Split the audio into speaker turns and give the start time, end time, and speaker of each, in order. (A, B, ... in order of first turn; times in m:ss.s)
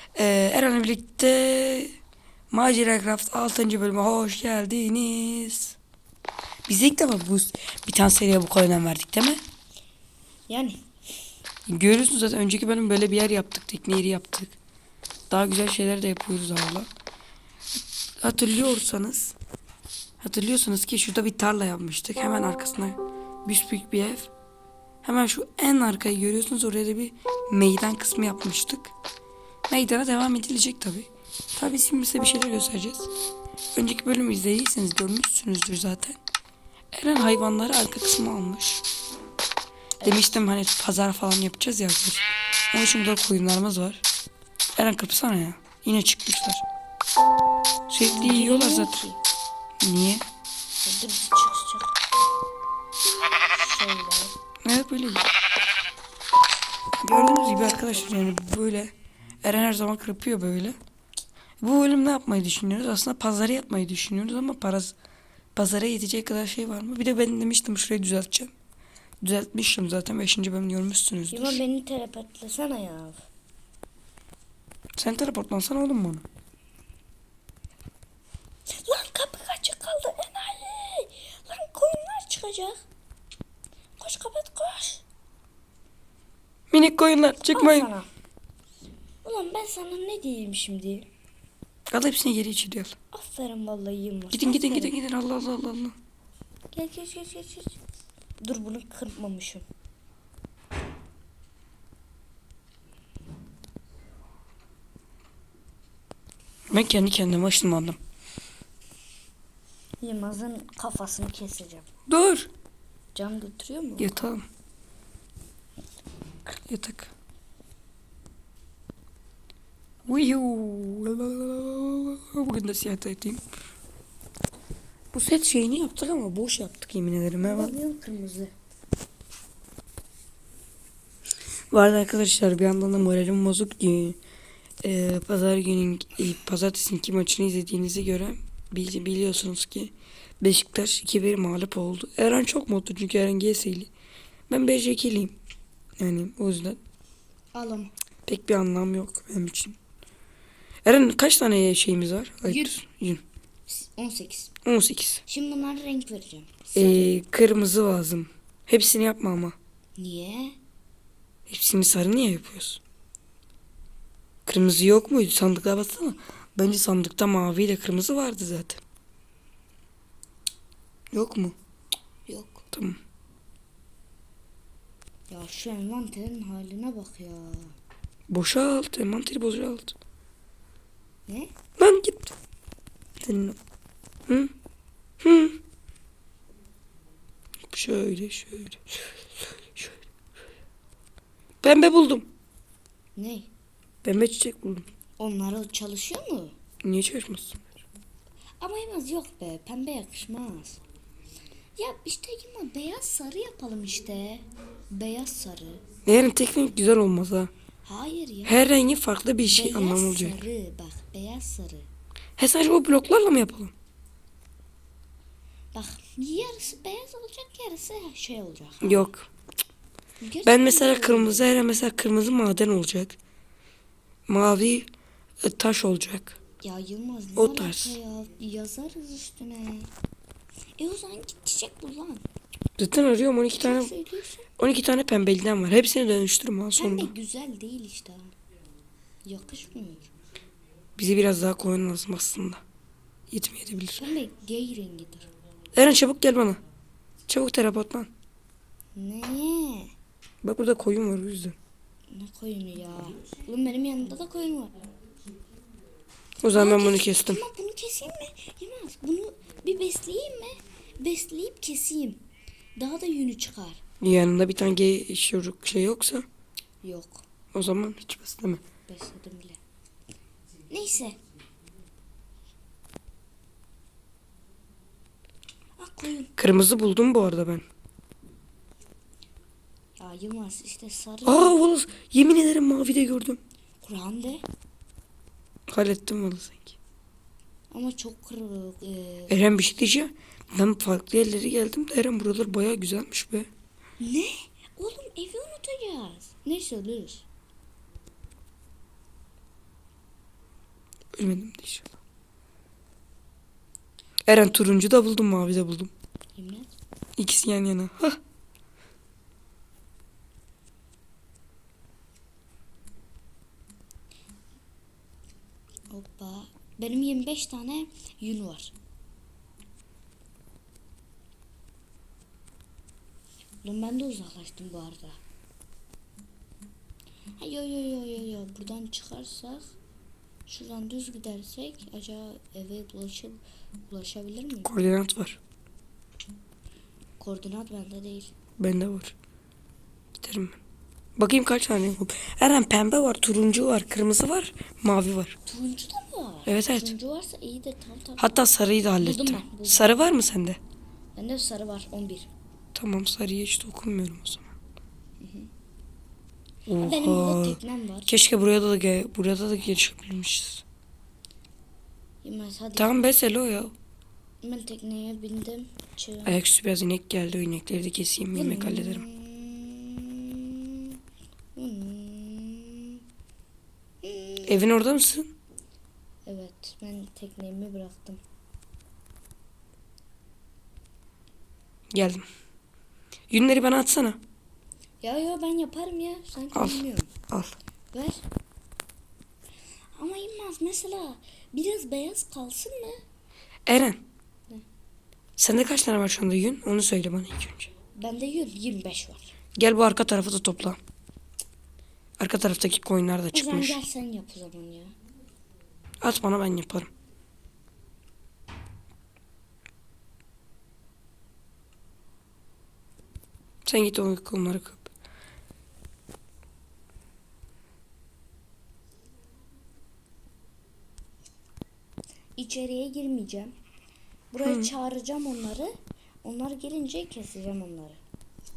0:00.1-0:02.0 A
0:02.5-0:05.8 A
0:06.7-0:09.4 A
0:10.5-0:10.8 B
0:11.7-0:14.6 A
0:15.3-0:16.9 A
0:18.2-0:19.3 A
0:20.2-0:24.3 A
0:25.0-0:28.9 A
0:29.7-0:33.1 A
0:33.7-0:36.2 A
0:36.9-0:38.8 A
0:40.0-0:40.4 B
0:40.0-0:44.0 A
0:44.8-0:46.6 A
0:47.9-0:49.0 A
0:48.1-0:49.2 B
0:49.8-0:50.2 A
0:50.8-0:52.0 B
0:53.5-0:54.4 B
0:54.6-0:55.2 A
0:57.0-1:00.8 A
0:57.3-0:58.0 B
1:01.6-1:04.9 A
1:05.6-1:08.5 A
1:09.2-1:11.6 A
1:11.3-1:13.3 B
1:15.0-1:16.2 A
1:18.7-1:22.8 B
1:24.0-1:25.0 B
1:26.7-1:27.9 A
1:27.5-1:28.1 B
1:29.2-1:31.1 B
1:31.9-1:33.0 A
1:33.1-1:34.9 B
1:34.3-1:35.9 A
1:36.7-1:37.8 B
1:38.4-1:39.6 B
1:46.7-1:48.0 A
1:50.0-1:51.9 B
1:52.1-1:52.5 A
1:53.1-1:54.2 B
1:54.0-1:54.4 A
1:56.6-1:57.1 A
2:00.1-2:03.4 A
2:05.1-2:07.8 A
2:07.4-2:08.5 B
2:11.7-2:14.2 A
2:14.8-2:23.9 A
2:24.5-2:25.4 A
2:26.0-2:26.8 A
2:27.5-2:27.9 B
2:28.3-2:29.8 A
2:30.8-2:33.2 A
2:32.4-2:32.7 B
2:33.7-2:34.5 B
2:34.6-2:35.2 A
2:35.2-2:37.2 B
2:36.7-2:39.6 A
2:40.0-2:40.6 B
2:41.5-2:42.8 A
2:44.4-2:48.8 A
2:51.1-2:51.5 A
2:52.3-2:52.6 B
2:52.7-2:53.0 A
2:55.3-2:57.8 B
2:58.3-2:59.9 A
3:01.3-3:01.5 B
3:01.8-3:02.3 A
3:03.2-3:03.6 A
3:04.3-3:04.5 A
3:05.2-3:05.6 A
3:07.7-3:09.0 A
3:11.6-3:12.3 A
3:13.2-3:13.5 B
3:14.0-3:14.9 A
3:15.2-3:16.6 B
3:16.8-3:17.8 A
3:18.6-3:20.8 B
3:21.8-3:25.8 B
3:26.0-3:27.5 A
3:27.8-3:28.6 B
3:28.4-3:30.4 A
3:29.4-3:31.9 B
3:32.4-3:33.7 A
3:35.7-3:39.1 B
3:38.8-3:39.3 A
3:40.2-3:41.5 B
3:40.4-3:43.2 A
3:44.3-3:44.9 A
3:45.4-3:46.4 A
3:46.6-3:49.9 B
3:47.4-3:48.0 A
3:50.8-3:52.2 B
3:52.8-3:53.9 A
3:53.6-3:54.5 B
3:54.6-3:57.1 A
3:56.7-3:58.3 B
3:59.2-4:00.1 B
4:01.0-4:02.6 A
4:03.3-4:04.0 A
4:04.0-4:05.3 B
4:05.7-4:06.6 A
4:07.3-4:08.1 A
4:08.9-4:09.9 B
4:10.4-4:11.6 A
4:12.1-4:14.8 B
4:16.4-4:17.4 A
4:16.5-4:22.2 B
4:22.8-4:23.8 B
4:24.0-4:26.2 A
4:26.8-4:27.2 B
4:27.5-4:28.6 A
4:28.9-4:29.6 B
4:30.7-4:31.2 B
4:35.8-4:36.3 B
4:36.4-4:37.6 A
4:40.0-4:41.6 B
4:41.2-4:43.4 A
4:43.8-4:44.4 B
4:45.7-4:46.8 A
4:47.7-4:49.4 B
4:49.3-4:53.5 A
4:54.0-4:57.2 B
5:01.1-5:01.9 A
5:04.3-5:05.9 A
5:06.3-5:06.7 B
5:07.2-5:08.2 A
5:15.9-5:18.7 B
5:23.6-5:25.2 B
5:27.4-5:29.8 B
5:30.5-5:34.7 B
5:34.6-5:35.4 A
5:37.2-5:38.3 B
5:38.6-5:39.1 A
5:40.2-5:40.6 A
5:41.2-5:45.4 A
5:45.4-5:48.3 B
5:46.4-5:46.9 A
5:48.2-5:50.6 A
5:49.0-5:49.9 B
5:51.1-5:52.3 B
5:52.7-5:54.5 A
5:55.2-5:55.5 B
5:56.7-6:00.6 A
5:56.8-5:58.1 B
6:02.2-6:03.0 B
6:02.8-6:03.7 A
6:04.4-6:06.4 B
6:06.2-6:09.0 A
6:08.3-6:11.0 B
6:11.5-6:13.0 B
6:14.0-6:14.7 B
6:14.4-6:15.3 A
6:16.2-6:18.2 B
6:21.9-6:22.2 A
6:23.3-6:24.2 A
6:25.0-6:27.1 B
6:26.5-6:27.5 A
6:27.9-6:28.2 B
6:30.0-6:33.0 B
6:33.7-6:34.0 A
6:35.4-6:37.7 A
6:37.9-6:39.4 B
6:39.6-6:40.8 A
6:42.2-6:43.8 A
6:43.3-6:44.9 B
6:46.0-6:46.9 A
6:53.6-6:54.9 A
7:02.4-7:03.5 B
7:04.3-7:08.0 B
7:04.4-7:04.7 A